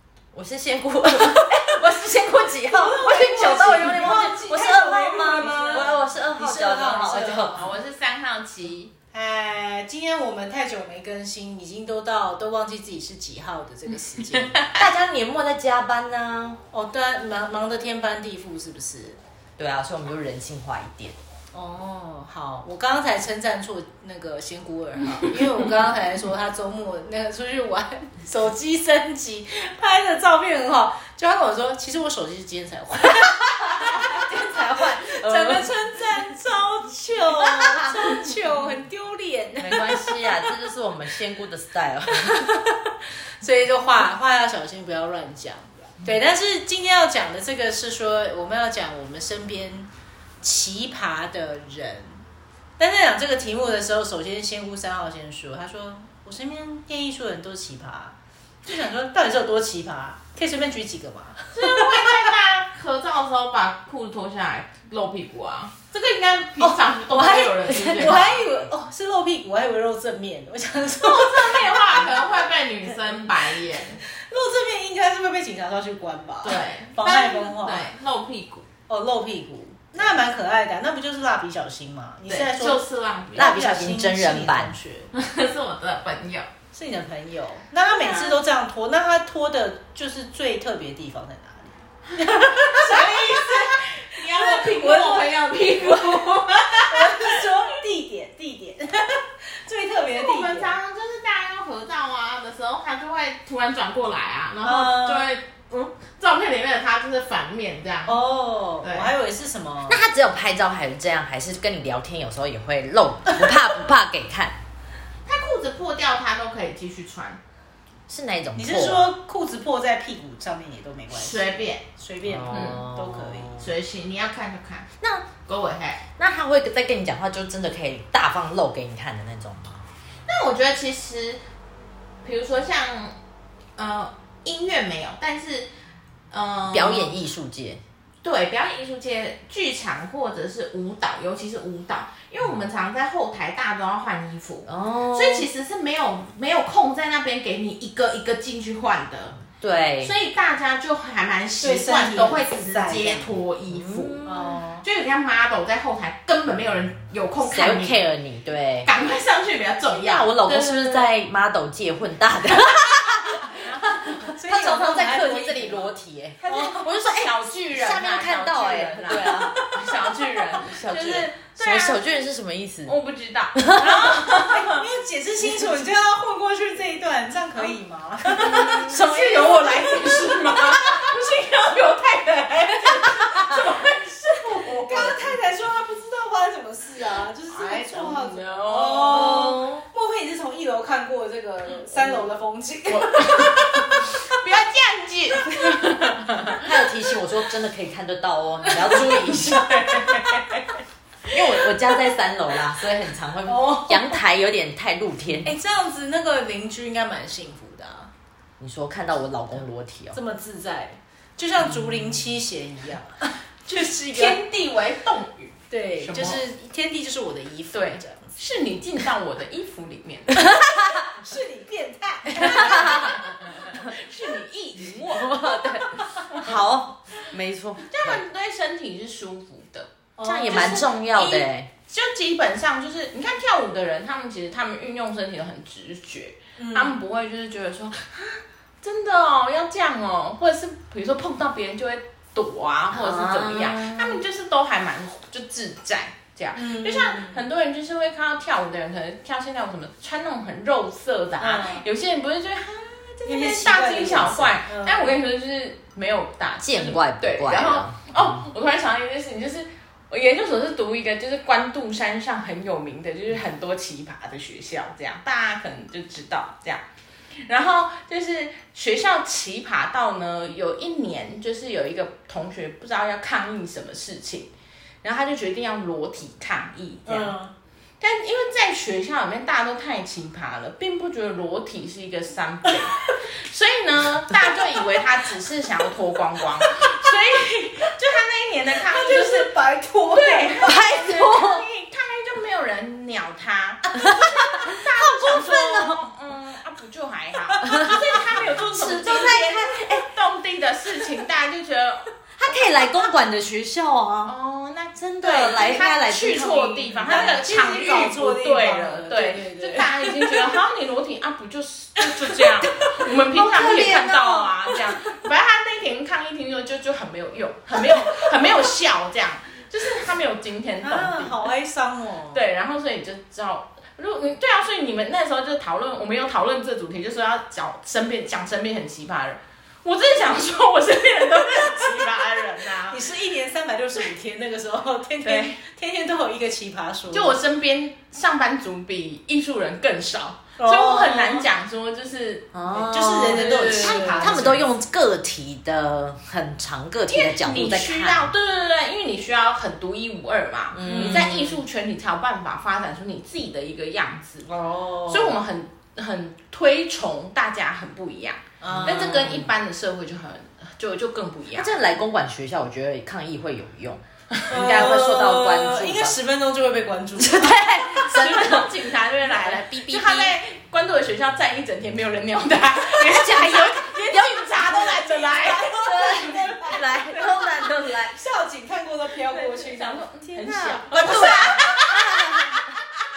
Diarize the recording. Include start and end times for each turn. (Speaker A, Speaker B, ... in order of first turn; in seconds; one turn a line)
Speaker A: 0.3-7.5
Speaker B: 2.7-7.7
Speaker C: 7.0-8.9
Speaker B: 9.1-14.8
Speaker A: 14.7-16.6
Speaker B: 16.7-19.2
Speaker A: 19.6-21.1
Speaker B: 21.5-40.5
Speaker A: 33.7-35.7
Speaker A: 37.3-38.4
Speaker A: 39.6-42.5
Speaker B: 42.3-42.8
Speaker B: 43.4-49.9
Speaker B: 50.4-52.2
Speaker B: 52.8-62.3
Speaker C: 61.5-68.4
Speaker A: 66.6-68.4
Speaker B: 67.8-72.2
Speaker C: 71.0-74.0
Speaker B: 74.0-77.9
Speaker C: 76.4-78.7
Speaker B: 78.9-82.8
Speaker C: 82.3-83.5
Speaker B: 83.3-85.1
Speaker A: 83.3-84.7
Speaker C: 85.1-86.5
Speaker B: 86.7-100.7
Speaker C: 87.9-88.4
Speaker C: 92.1-97.7
Speaker C: 100.1-108.2
Speaker B: 104.6-105.3
Speaker B: 108.0-110.0
Speaker C: 108.8-109.1
Speaker A: 109.9-114.5
Speaker C: 115.2-117.4
Speaker A: 118.1-119.1
Speaker B: 118.5-123.5
Speaker C: 121.1-121.8
Speaker A: 122.2-123.7
Speaker C: 122.5-122.8
Speaker C: 123.6-126.0
Speaker A: 125.0-125.3
Speaker A: 126.2-129.8
Speaker C: 130.2-131.4
Speaker C: 132.2-133.1
Speaker C: 133.8-135.7
Speaker C: 136.3-137.2
Speaker A: 136.7-137.8
Speaker C: 138.2-149.4
Speaker A: 144.7-145.5
Speaker A: 149.6-150.1
Speaker C: 150.0-158.0
Speaker B: 151.6-153.3
Speaker A: 153.7-154.4
Speaker B: 154.2-154.8
Speaker A: 157.4-158.9
Speaker C: 158.8-161.1
Speaker A: 160.0-169.6
Speaker B: 163.7-165.9
Speaker C: 166.4-172.2
Speaker B: 166.4-166.8
Speaker A: 170.5-172.9
Speaker C: 172.8-174.8
Speaker A: 173.6-173.8
Speaker B: 173.7-180.8
Speaker C: 178.2-185.3
Speaker B: 184.8-194.4
Speaker C: 187.5-189.6
Speaker A: 189.1-189.8
Speaker C: 192.9-196.7
Speaker A: 196.6-199.7
Speaker C: 198.7-200.7
Speaker A: 201.3-205.5
Speaker B: 203.5-204.2
Speaker B: 205.4-208.1
Speaker A: 208.6-210.2
Speaker B: 210.1-214.4
Speaker C: 213.7-216.4
Speaker B: 215.7-218.3
Speaker C: 217.7-220.5
Speaker A: 220.4-221.0
Speaker B: 221.0-223.3
Speaker A: 222.4-223.2
Speaker C: 222.4-226.6
Speaker A: 225.0-228.2
Speaker B: 225.8-226.3
Speaker C: 227.9-229.9
Speaker B: 230.2-230.9
Speaker A: 230.2-231.7
Speaker C: 230.4-266.8
Speaker B: 236.6-237.0
Speaker A: 242.9-244.2
Speaker B: 246.5-247.4
Speaker B: 251.4-251.8
Speaker B: 253.2-255.1
Speaker A: 256.6-258.4
Speaker C: 267.4-274.5
Speaker C: 275.0-277.4
Speaker B: 277.1-277.5
Speaker C: 278.0-289.5
Speaker B: 288.9-290.7
Speaker C: 290.1-302.1
Speaker A: 290.6-291.6
Speaker A: 294.0-296.0
Speaker A: 297.6-300.1
Speaker A: 302.4-304.3
Speaker C: 304.2-321.5
Speaker A: 305.0-307.4
Speaker B: 305.2-310.4
Speaker A: 312.6-314.6
Speaker B: 320.8-322.4
Speaker C: 322.3-333.0
Speaker B: 332.8-337.4
Speaker C: 335.2-335.6
Speaker C: 337.1-344.5
Speaker B: 340.6-341.5
Speaker A: 342.5-348.3
Speaker B: 342.7-344.6
Speaker C: 347.1-354.5
Speaker A: 350.7-351.6
Speaker B: 350.8-351.4
Speaker B: 354.4-355.4
Speaker C: 355.1-361.7
Speaker B: 358.6-359.5
Speaker A: 358.7-359.3
Speaker A: 361.5-366.1
Speaker B: 364.5-368.6
Speaker A: 367.1-370.4
Speaker C: 368.0-377.3
Speaker A: 372.8-374.9
Speaker B: 374.6-382.6
Speaker A: 375.8-378.2
Speaker C: 379.2-382.0
Speaker A: 380.4-382.8